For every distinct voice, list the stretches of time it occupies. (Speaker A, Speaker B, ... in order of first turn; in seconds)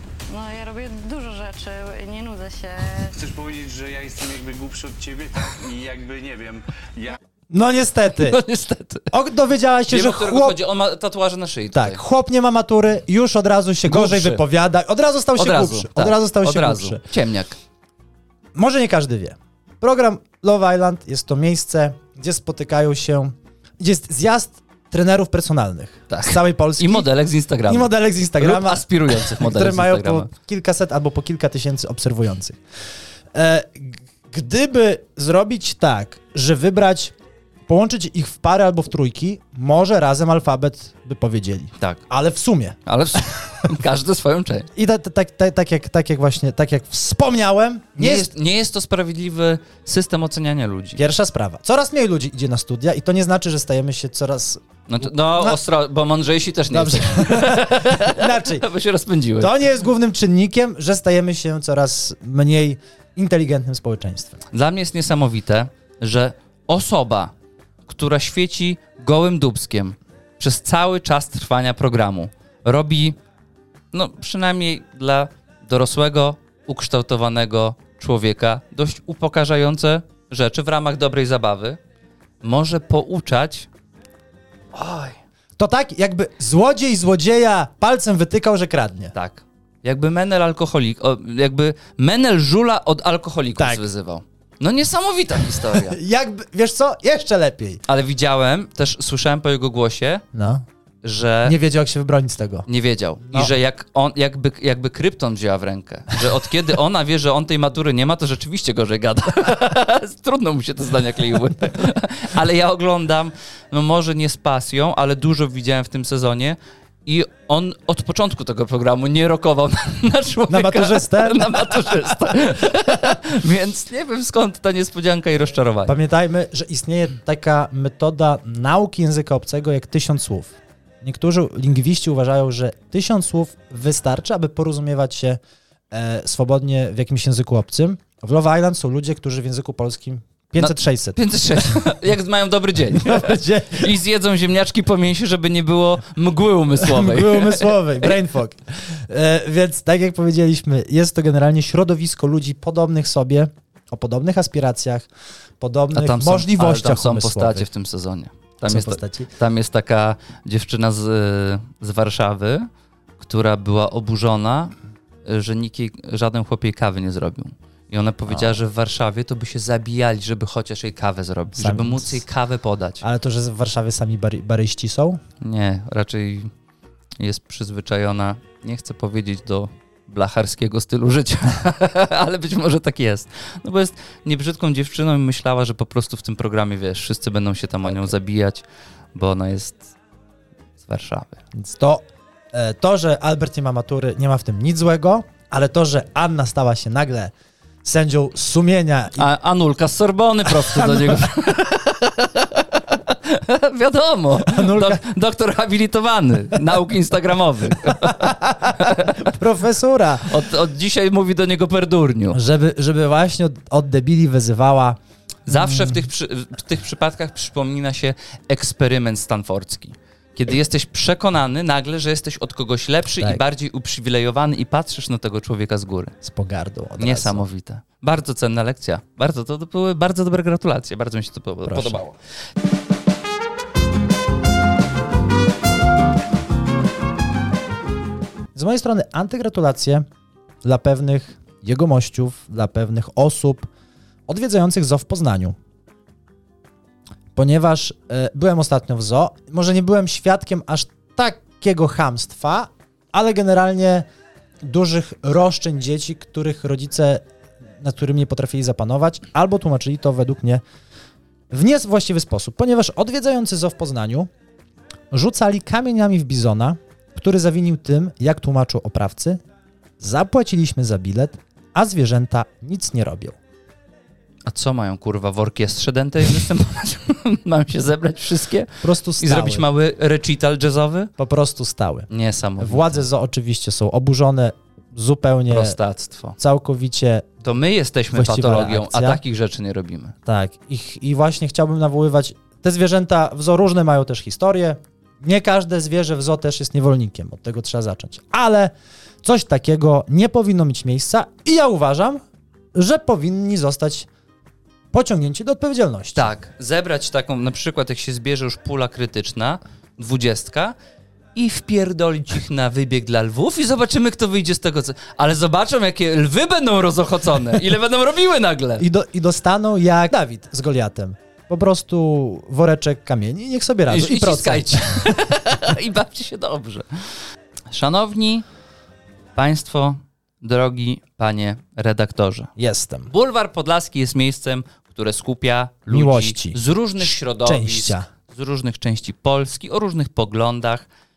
Speaker A: 0.3-3.1
Speaker B: 3.1-7.2
Speaker C: 7.5-8.4, 9.1-10.6, 11.7-17.0, 18.6-27.1, 27.7-32.6, 33.3-37.1, 37.7-43.2, 44.8-48.3, 51.0-55.6, 56.7-58.7, 59.4-64.4, 85.6-89.1, 93.6-93.8, 95.5-97.8, 100.3-100.7, 101.4-102.7, 120.5-122.3, 125.9-135.4, 135.9-141.8, 142.9-144.0, 146.8-155.1, 155.6-157.7, 158.7-159.3, 168.3-168.6, 171.5-172.2, 173.0-175.2, 191.5-199.3, 200.4-201.2, 204.4-205.0, 207.9-210.3, 212.3-216.1, 226.2-227.4, 231.7-232.0, 238.5-240.1, 240.6-243.7, 244.3-245.6, 247.3-254.1, 254.6-257.2, 257.8-260.6, 261.5-264.3, 265.1-269.4, 270.0-273.4, 278.8-279.6, 281.2-285.8, 286.4-287.3, 288.1-289.2, 290.3-302.2, 302.7-304.1, 304.9-306.3, 318.8-325.1, 332.6-333.1, 335.9-338.1
Speaker D: 8.2-9.1, 9.9-12.0, 13.8-14.4, 15.4-17.6, 26.1-30.3, 42.9-44.7, 48.0-51.0, 54.9-59.5, 64.5-67.3, 67.9-73.2, 73.9-81.8, 82.4-83.7, 84.7-85.2, 89.1-96.0, 97.9-100.2, 101.0-101.6, 102.7-126.0, 140.6-148.1, 155.9-162.7, 163.2-164.8, 165.3-173.0, 175.4-176.5, 177.2-188.6, 189.2-189.8, 190.8-191.4, 199.2-209.3, 210.3-212.4, 215.5-226.1, 227.0-232.1, 274.5-281.1, 282.1-283.1, 285.5-286.4, 287.4-290.1, 306.2-310.8, 311.4-318.9, 323.9-326.9, 327.7-328.4, 329.4-332.5, 333.1-340.9